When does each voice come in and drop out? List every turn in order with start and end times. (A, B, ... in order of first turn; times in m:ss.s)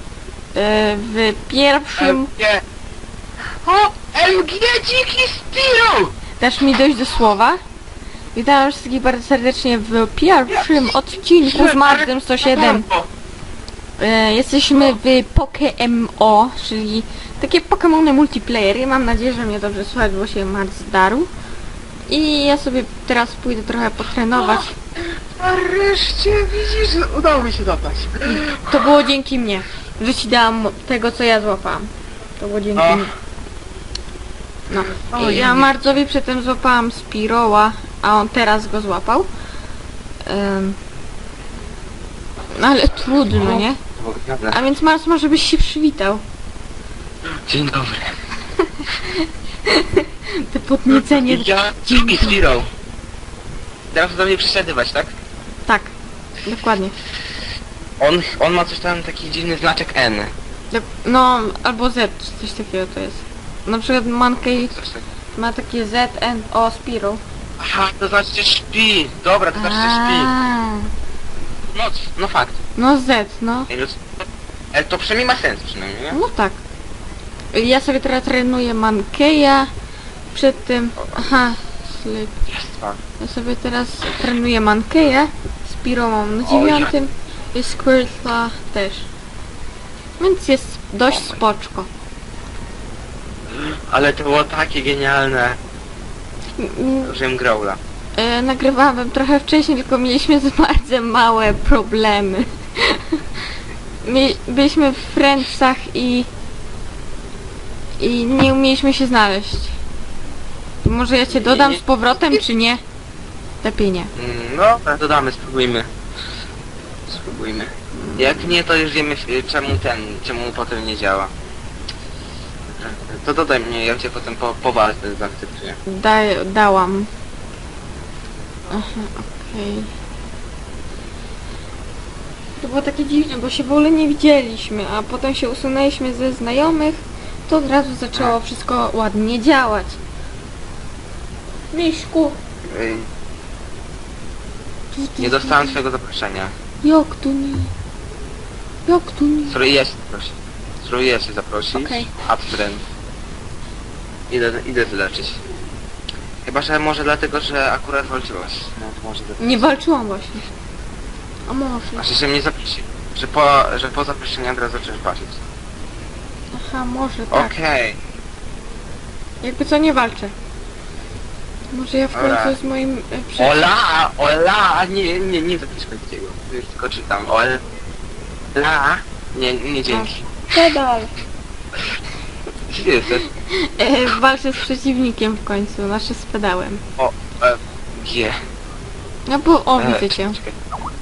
0:00.5-0:02.3 A
0:02.0-0:02.6 B
0:03.6-0:06.1 B
0:06.4-0:07.6 A
0:08.3-0:12.8 A
0:10.5-0:10.9 B
0:11.4-0:13.1 B
0:14.0-0:21.3 A
0:22.1-0:24.7 A
0:24.4-0:28.9 B
0:28.2-0:33.1 A
0:32.7-0:33.1 B
0:34.7-0:36.0 B
0:34.7-0:39.3 A
0:40.2-0:40.8 A
0:42.6-0:43.8 A
0:43.3-0:44.6 B
0:44.5-0:46.2 A
0:47.3-0:48.2 B
0:48.6-0:52.4 A
0:50.9-0:52.7 B
0:53.9-0:55.1 B
0:55.7-0:55.9 A
0:56.4-0:56.9 A
0:58.0-1:00.3 B
1:00.7-1:04.7 A
1:04.5-1:05.0 B
1:05.4-1:07.2 A
1:07.6-1:10.3 B
1:09.5-1:10.9 A
1:11.7-1:12.6 B
1:12.8-1:13.7 A
1:13.7-1:14.1 B
1:14.7-1:16.2 B
1:16.1-1:16.6 A
1:17.5-1:19.7 A
1:20.3-1:22.4 A
1:21.0-1:21.4 B
1:22.5-1:23.0 B
1:23.2-1:29.1 A
1:26.4-1:26.9 B
1:30.2-1:31.9 A
1:31.1-1:31.4 B
1:33.5-1:35.6 B
1:36.6-1:37.1 A
1:37.0-1:37.8 B
1:38.2-1:43.2 A
1:44.0-1:46.3 A
1:48.0-1:49.8 A
1:50.8-1:52.8 A
1:51.3-1:52.4 B
1:53.6-1:54.1 A
1:54.2-1:55.9 B
1:57.1-2:01.3 B
1:57.9-1:58.5 A
2:02.7-2:05.8 B
2:05.8-2:07.1 A
2:08.7-2:09.9 A
2:12.6-2:20.0 A
2:21.7-2:22.4 A
2:22.7-2:23.1 B
2:24.9-2:25.8 A
2:25.2-2:26.5 B
2:26.8-2:27.7 A
2:28.8-2:29.6 A
2:29.5-2:32.8 B
2:31.7-2:32.1 A
2:34.3-2:35.4 B
2:36.4-2:39.6 B
2:39.4-2:40.4 A
2:41.5-2:42.1 A
2:42.0-2:45.4 B
2:46.5-2:47.5 A
2:47.3-2:48.0 B
2:49.4-2:50.3 A
2:51.7-2:53.6 A
2:52.1-2:52.6 B
2:53.4-2:57.6 B
2:58.5-3:00.3 B
2:59.9-3:01.1 A
3:02.7-3:03.3 B
3:03.5-3:06.8 A
3:07.0-3:08.4 B
3:09.3-3:10.4 A
3:09.8-3:10.6 B